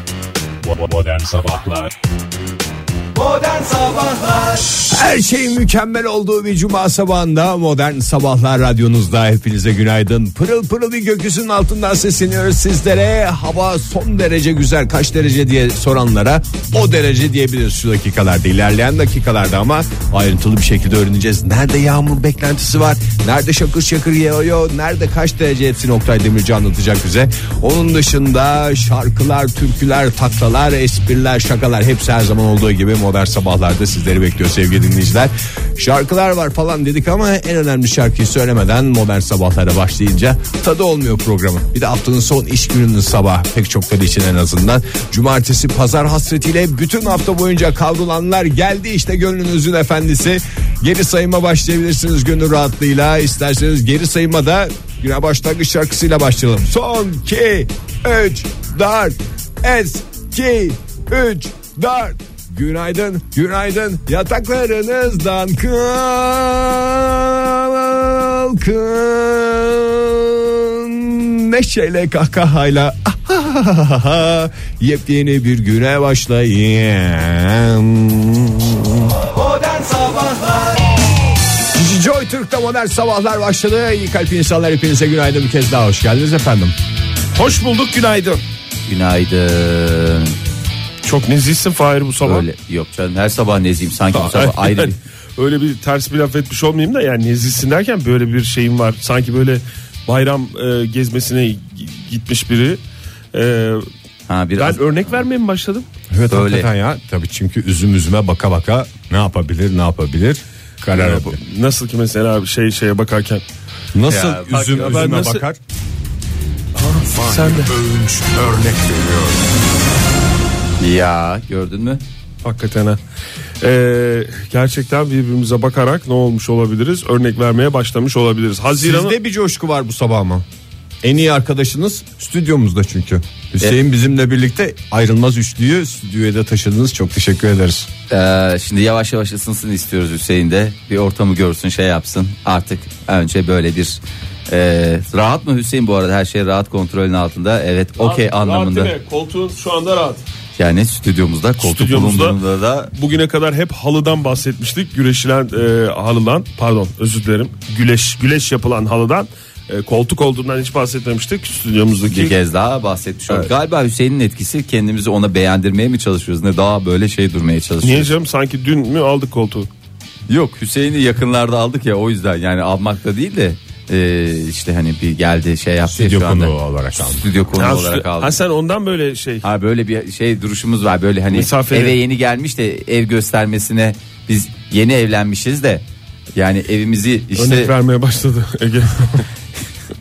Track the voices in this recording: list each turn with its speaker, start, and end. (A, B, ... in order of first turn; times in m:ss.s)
0:00.7-0:01.8 A
0:04.4-1:20.7 A
1:21.7-1:26.8 A
1:27.3-1:28.4 B
1:28.9-1:30.3 C
1:31.0-1:32.4 B
1:32.2-1:35.0 C
1:34.1-1:42.8 B
1:43.3-1:43.9 B
1:44.3-1:45.2 C
1:44.6-1:45.9 B
1:46.1-1:51.4 A
1:46.3-1:46.7 C
1:50.9-1:53.4 B
1:53.9-1:55.6 A
1:54.1-1:55.2 C
1:54.5-1:55.4 B
1:56.8-1:57.7 B
1:57.1-1:59.4 A
2:00.8-2:02.0 C
2:02.4-2:03.0 B
2:03.6-2:09.1 B
2:08.8-2:10.4 A
2:11.0-2:17.9 A
2:18.1-2:28.9 C
2:28.0-2:30.2 B
2:30.6-2:32.9 C
2:31.6-2:32.4 B
2:32.9-2:42.4 B
2:42.1-2:48.1 C
2:47.8-2:49.7 B
2:50.3-2:58.4 C
2:55.8-2:57.2 A
2:57.6-2:59.4 B
2:59.4-3:05.8 C
3:01.3-3:02.0 B
3:06.3-3:07.7 C
3:07.4-3:09.3 B